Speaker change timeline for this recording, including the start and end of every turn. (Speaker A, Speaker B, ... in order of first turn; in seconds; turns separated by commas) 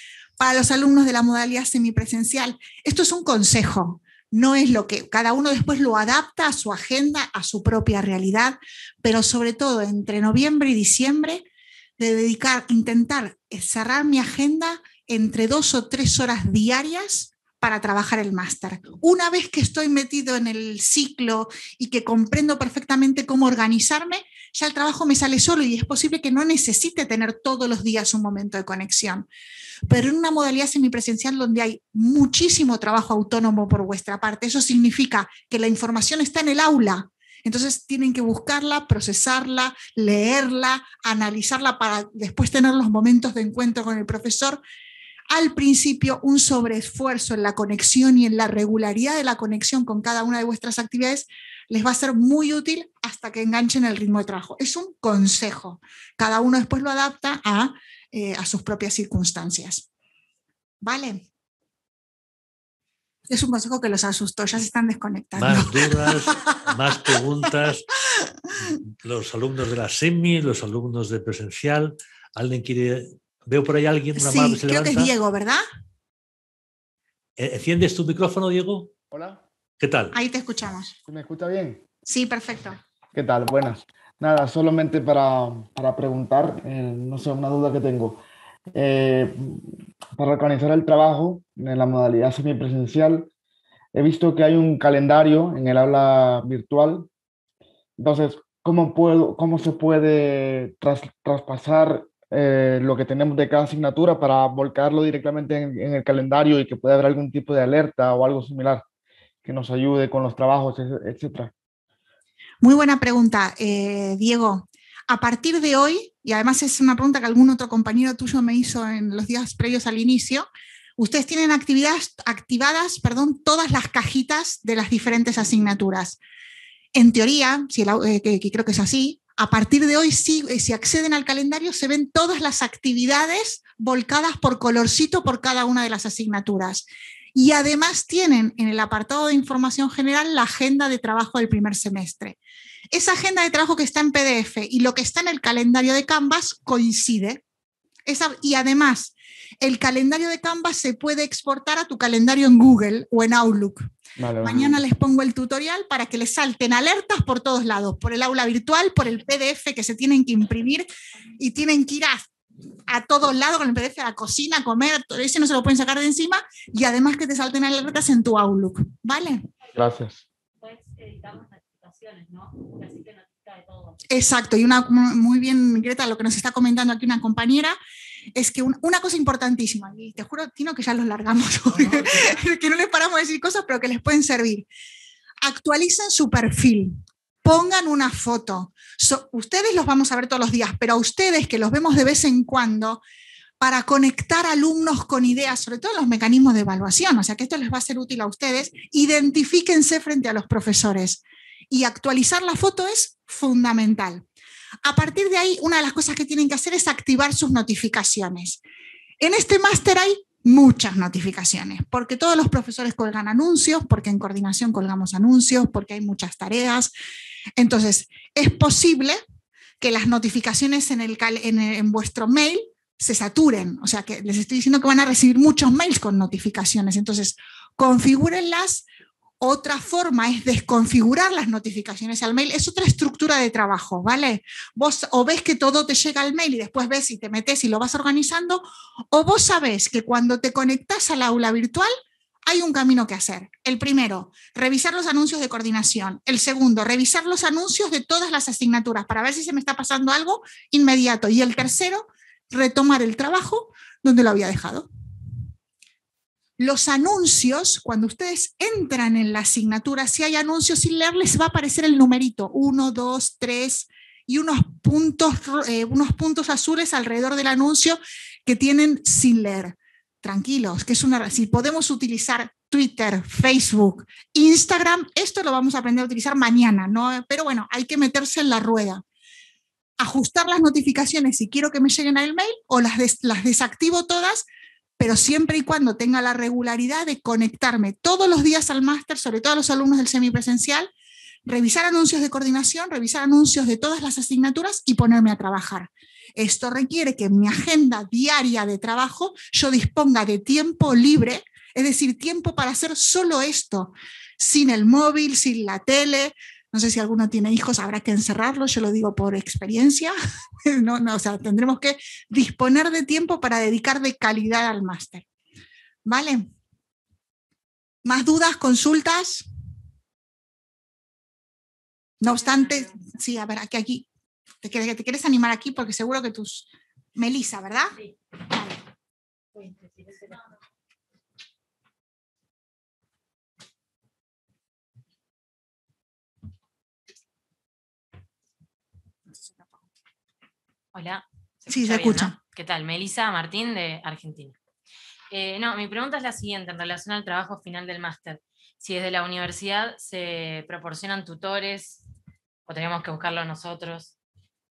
Speaker A: 0.4-11.4, Speaker A: 12.0-29.3, Speaker A: 29.9-44.6, Speaker A: 45.3-59.9, Speaker A: 60.8-61.2, Speaker A: 63.3-66.6, Speaker B: 65.4-67.9, Speaker B: 68.7-75.1, Speaker A: 74.2-75.6, Speaker B: 77.4-78.9, Speaker C: 79.1-79.4, Speaker B: 79.8-80.2, Speaker A: 80.1-80.9, Speaker C: 81.1-81.8, Speaker A: 82.1-82.8, Speaker C: 83.1-93.3, Speaker C: 93.9-97.1, Speaker C: 98.0-108.8, Speaker C: 109.5-111.5, Speaker A: 112.6-120.5, Speaker A: 121.0-126.2, Speaker A: 127.0-142.4, Speaker A: 142.9-147.4, Speaker A: 148.1-153.9, Speaker C: 154.2-154.8, Speaker A: 154.4-160.9, Speaker A: 161.4-162.3, Speaker A: 162.9-169.4, Speaker C: 169.8-170.2, Speaker D: 170.6-174.0, Speaker A: 174.1-177.8, Speaker A: 178.3-184.7, Speaker A: 185.4-193.0, Speaker A: 193.6-204.2, Speaker A: 204.8-208.6, Speaker A: 209.2-216.9, Speaker A: 217.6-219.2, Speaker A: 219.8-228.9, Speaker A: 229.4-241.9, Speaker A: 242.5-254.9, Speaker A: 256.6-279.0, Speaker A: 280.0-284.5, Speaker A: 285.0-290.9, Speaker A: 291.5-310.1, Speaker A: 310.6-315.2, Speaker A: 316.1-316.5, Speaker A: 318.1-319.5, Speaker A: 322.2-324.1, Speaker A: 324.6-327.9, Speaker A: 328.5-328.8, Speaker D: 329.6-330.4, Speaker E: 340.9-344.6, Speaker A: 341.7-342.4, Speaker E: 345.3-352.0, Speaker E: 352.7-354.1